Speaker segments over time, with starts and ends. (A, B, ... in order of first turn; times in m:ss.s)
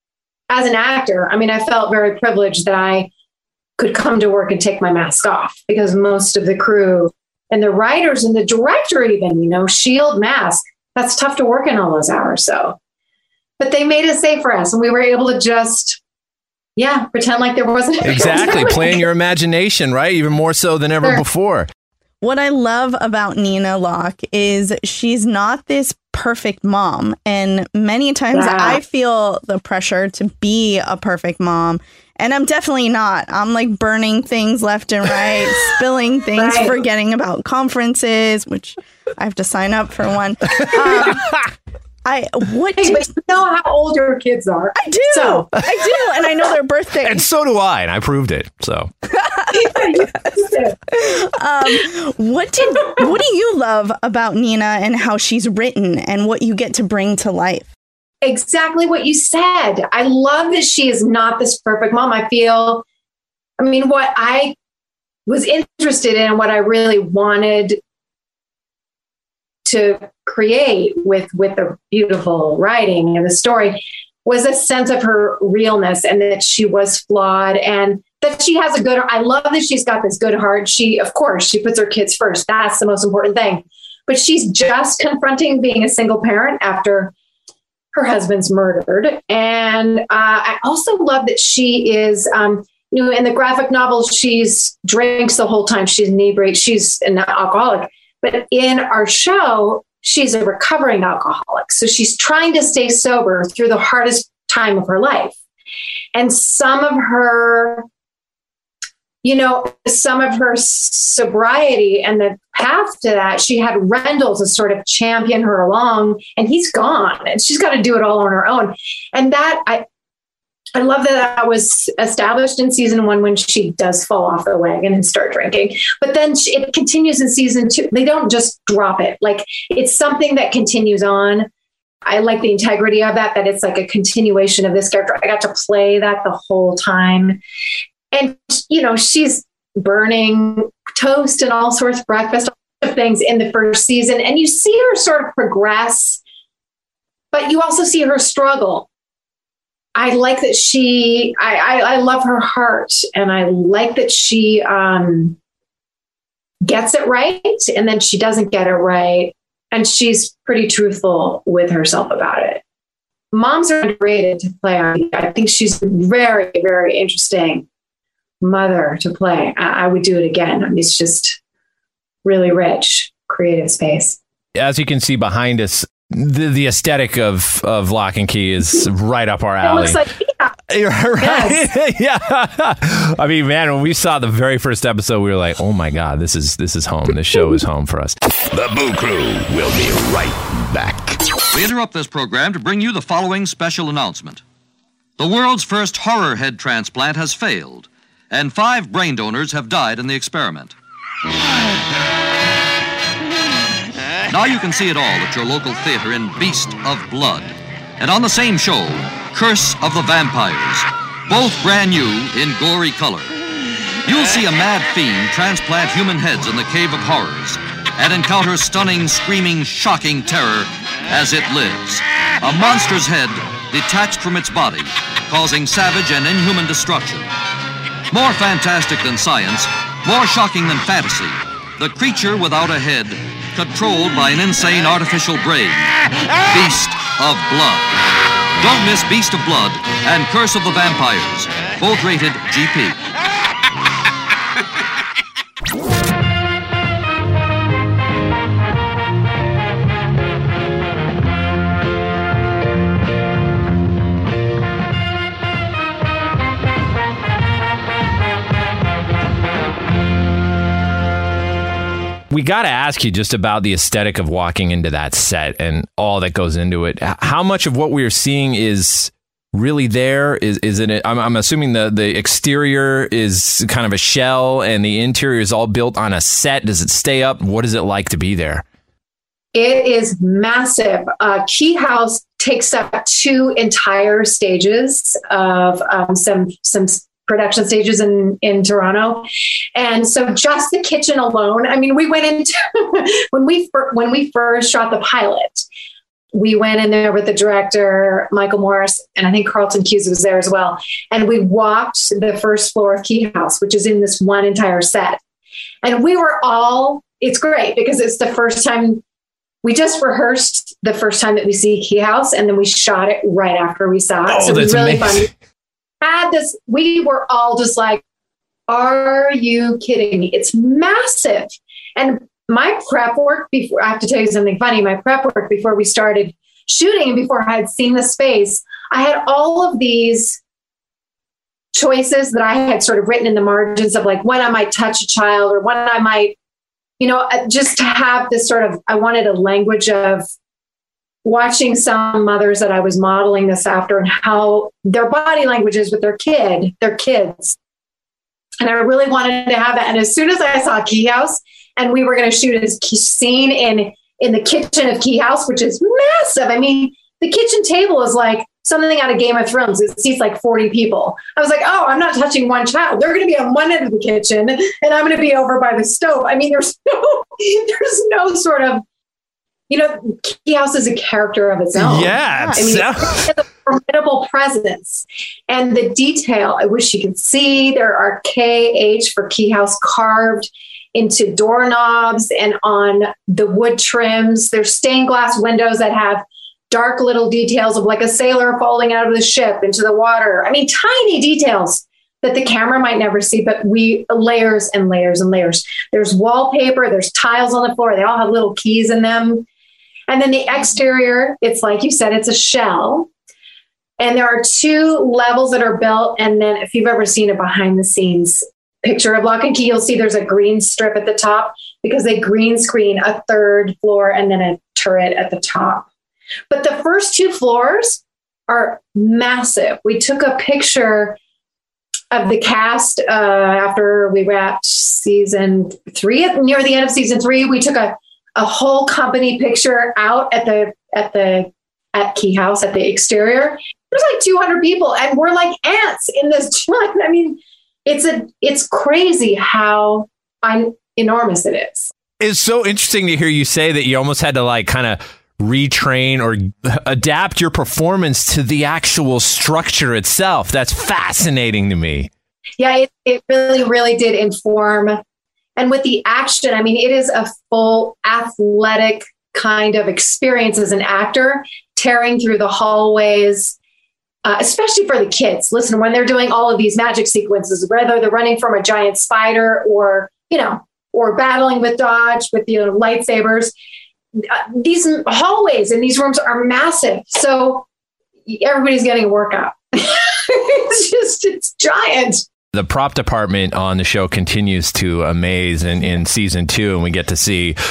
0:00.5-0:03.1 A
0:03.8-0:12.8 A
0:13.6-0:16.0 A
0:16.8-0:19.0 A
0:18.0-0:21.7 B
0:22.2-0:41.4 C
0:28.3-0:28.8 A
0:36.4-0:36.8 A
0:40.6-0:41.3 B
0:42.0-0:43.1 C
0:42.8-0:45.5 A
0:44.8-0:47.3 C
0:47.0-0:48.9 B
0:49.5-0:50.8 A
0:49.7-0:50.0 C
0:50.9-0:57.7 C
0:58.2-1:02.8 A
1:03.6-1:04.6 A
1:05.3-1:07.8 A
1:09.6-1:27.1 A
1:27.9-1:45.4 A
1:46.1-1:47.9 A
1:49.2-1:59.8 A
2:00.8-2:11.5 A
2:12.0-2:17.4 A
2:18.1-2:26.2 A
2:27.3-2:28.9 A
2:30.0-2:35.4 A
2:36.6-2:42.6 A
2:43.3-2:47.7 A
2:48.4-2:51.4 A
2:52.2-2:54.2 A
2:54.6-3:00.0 B
2:59.6-3:00.6 A
3:00.7-3:08.2 B
3:01.2-3:01.6 A
3:08.5-3:11.2 D
3:11.5-3:14.4 E
3:15.2-3:20.8 E
3:24.3-3:33.3 E
3:34.0-3:47.3 E
3:48.1-3:55.9 E
3:56.5-3:57.9 E
3:58.6-4:03.0 E
4:22.3-4:38.6 B
4:39.5-4:55.6 A
4:56.3-5:05.2 A
5:05.8-5:09.0 A
5:09.6-5:15.3 A
5:14.3-5:15.3 B
5:16.0-5:18.0 A
5:18.7-5:30.4 A
5:31.7-5:36.4 A
5:37.0-5:40.2 A
5:41.2-5:47.6 A
5:48.6-6:08.8 A
6:09.7-6:39.4 A
6:11.8-6:13.3 B
6:12.3-6:12.6 C
6:40.1-6:43.1 A
6:44.0-6:55.9 A
6:56.5-7:01.2 A
7:02.1-7:21.9 A
7:22.2-7:32.1 B
7:32.6-7:35.0 A
7:35.6-7:43.6 A
7:44.2-7:53.5 A
7:54.2-7:57.7 A
7:58.3-8:02.2 A
8:02.5-8:07.6 B